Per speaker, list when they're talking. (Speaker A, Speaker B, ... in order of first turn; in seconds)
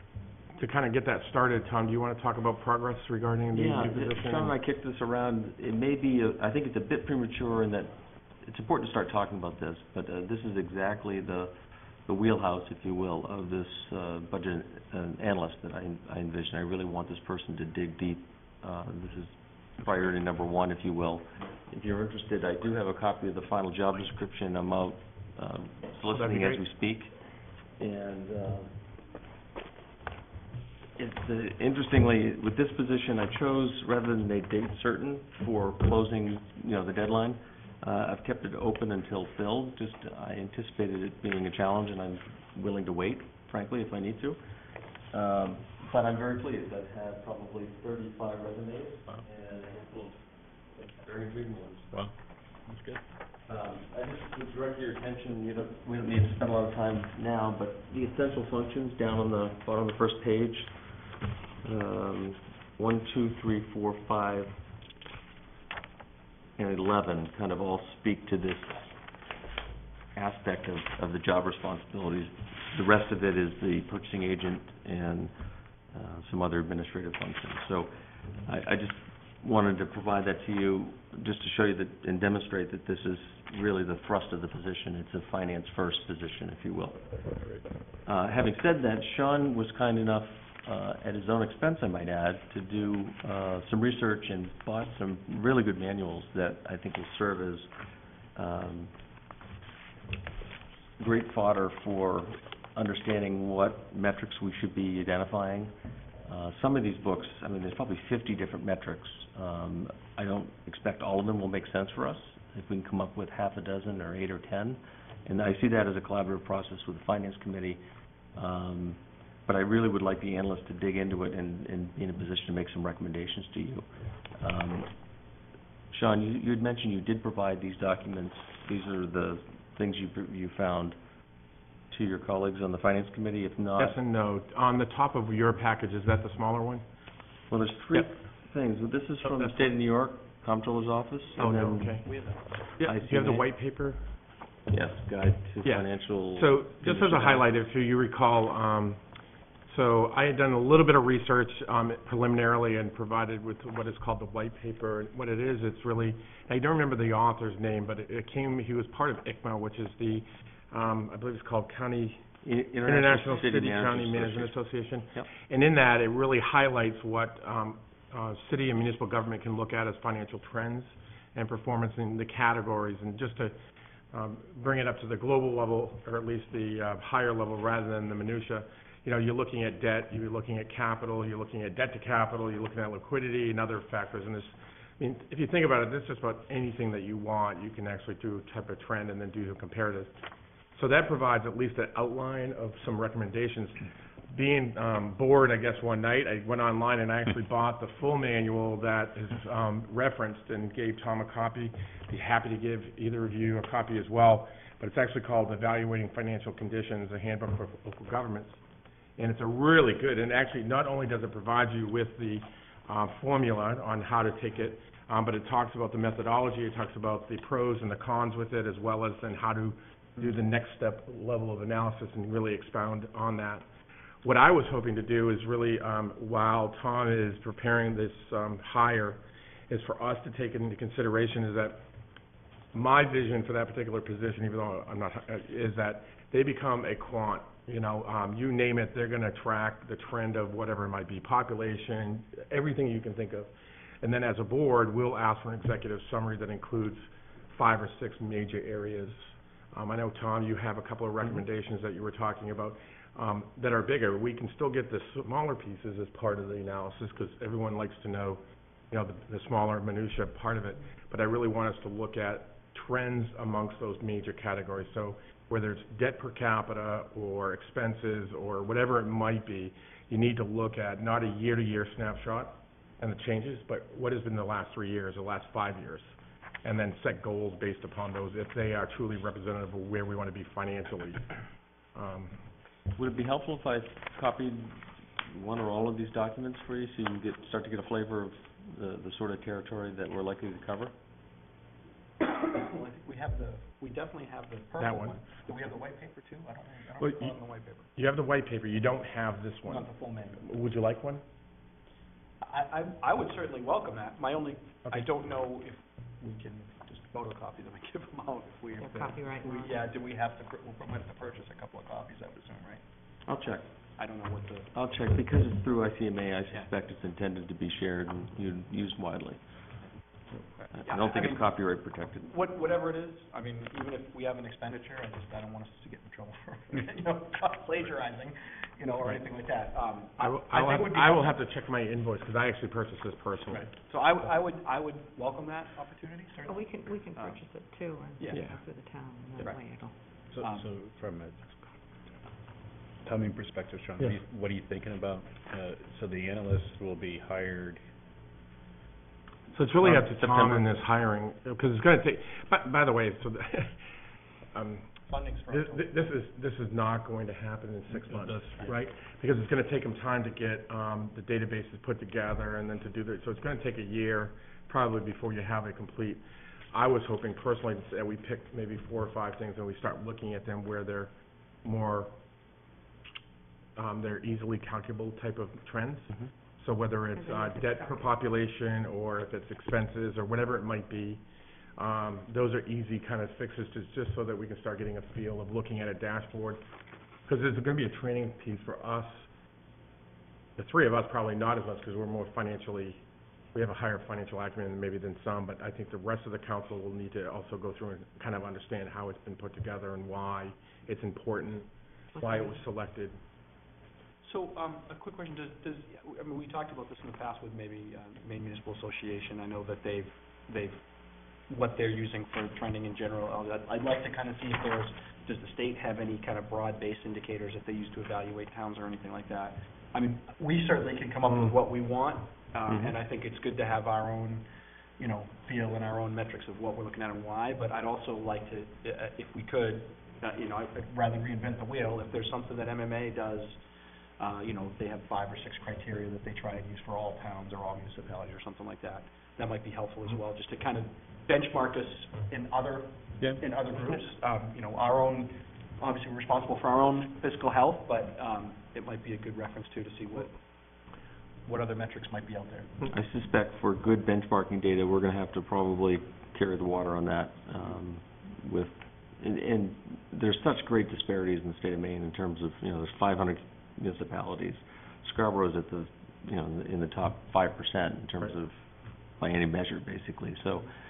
Speaker A: 0.6-4.5, 26.1-26.6, 133.8-136.8, 141.4-142.1, 142.8-144.0, 145.6-149.0, 149.7-162.3, 162.8-173.6, 174.1-190.1, 190.7-208.6, 209.2-223.7, 224.2-231.8, 232.7-281.3, 281.9-282.4, 294.8-295.2, 297.0-297.4, 297.9-301.2, 330.2-333.7, 338.3-338.6, 349.5-353.8, 354.5-354.9, 355.5-366.2, 366.7-371.1, 371.6-372.1, 373.8-381.2, 381.8-386.6, 387.3-389.3, 390.6-393.0, 393.5-403.2, 421.3-421.5
Speaker B: 3.5-11.5, 12.1-27.1, 27.8-28.8, 31.0-44.4, 45.1-52.1, 53.5-60.7, 61.6-64.6, 66.6-69.0, 70.2-75.3, 75.9-77.9, 78.5-87.0, 88.1-97.7, 98.3-98.9, 101.0-105.7, 106.2-117.8, 118.3-124.9, 125.9-131.0, 131.9-134.0, 137.5-142.1, 142.8-143.5, 144.7-147.5, 162.4-164.6, 282.9-290.9, 313.3-313.7, 314.7-319.4, 320.7-322.3, 350.2-350.6, 422.7-422.9, 452.9-468.6, 469.2-470.7
Speaker C: 52.7-53.0, 340.3-341.7, 343.1-347.8, 358.0-358.7
Speaker D: 142.1-142.4, 292.2-297.9, 299.7-300.4, 302.4-312.8, 314.0-314.7, 320.6-321.5, 322.2-331.4, 333.6-337.4, 338.2-338.4, 340.4-340.7, 355.1-355.9, 404.2-410.8, 411.5-424.5, 425.0-433.6, 434.2-450.4, 451.5-452.8
Speaker E: 308.8-309.8, 336.5-339.9, 377.1-378.1, 402.1-402.6